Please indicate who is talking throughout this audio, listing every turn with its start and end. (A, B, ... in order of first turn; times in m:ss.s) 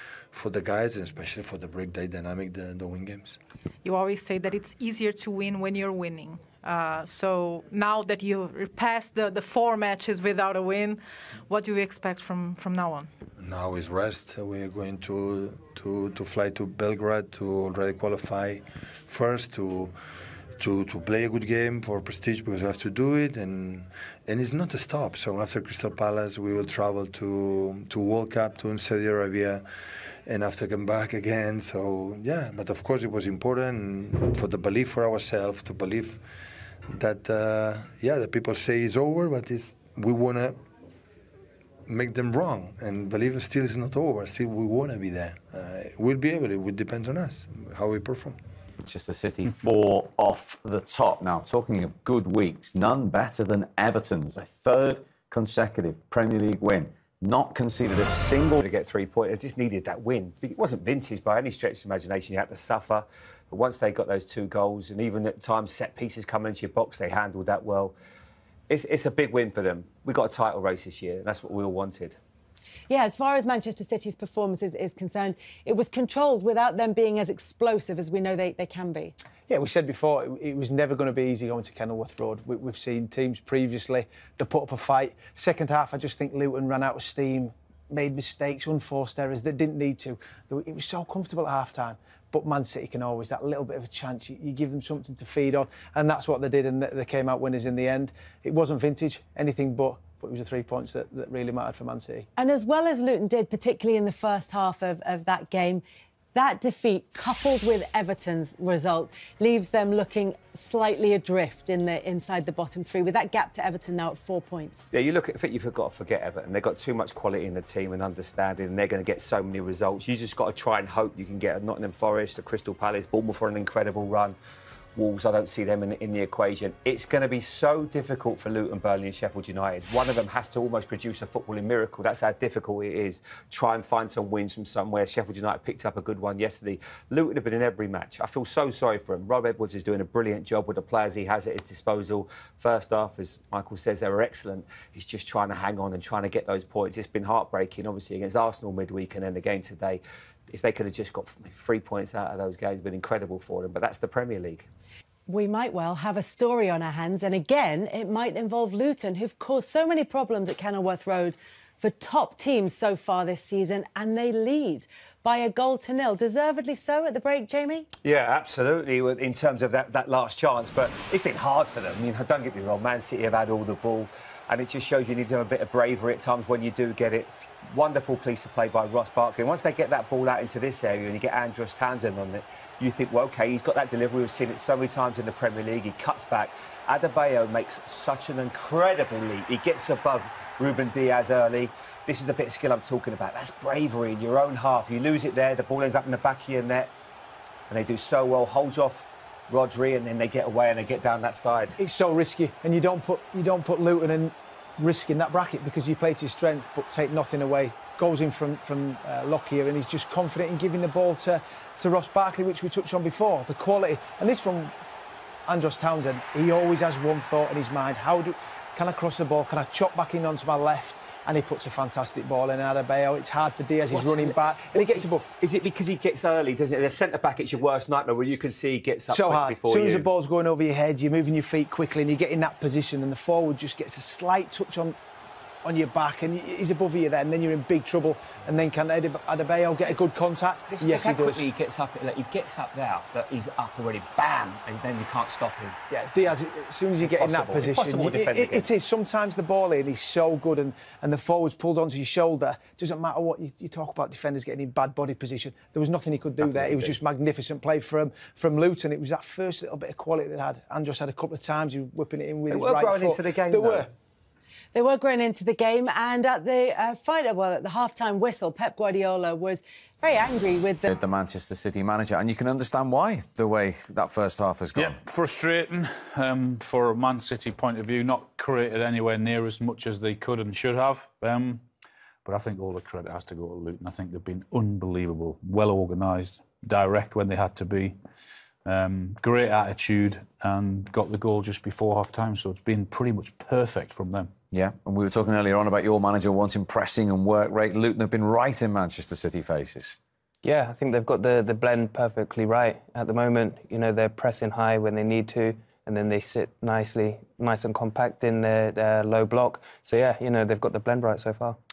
0:00.3-0:03.4 A
0:03.8-0:13.1 B
0:13.4-0:19.9 A
0:20.6-0:29.6 A
0:30.2-0:36.2 A
0:36.9-0:40.6 A
0:41.9-0:48.4 A
0:48.8-0:58.6 C
0:58.6-1:08.0 D
1:08.7-1:12.2 D
1:12.9-1:19.1 E
1:19.5-1:42.2 F
1:42.4-1:45.8 E
1:46.3-1:54.9 E
1:54.9-2:04.4 D
2:05.0-2:34.7 D
2:35.3-2:47.9 E
2:48.0-3:16.9 D
3:17.7-3:21.8 D
3:21.8-3:34.7 F
3:35.5-3:45.3 F
3:43.9-3:50.1 D
3:49.1-3:55.0 F
3:55.6-4:01.4 F
4:00.7-4:05.7 D
4:05.9-4:23.9 F
4:07.0-4:08.7 D
4:16.4-4:17.0 D
4:22.5-4:23.9 D
4:24.7-4:30.9 E
4:30.8-4:35.0 C
4:34.7-4:41.6 G
4:42.2-4:48.0 G
4:48.6-4:54.3 G
4:54.5-5:00.0 C
5:00.4-5:11.6 H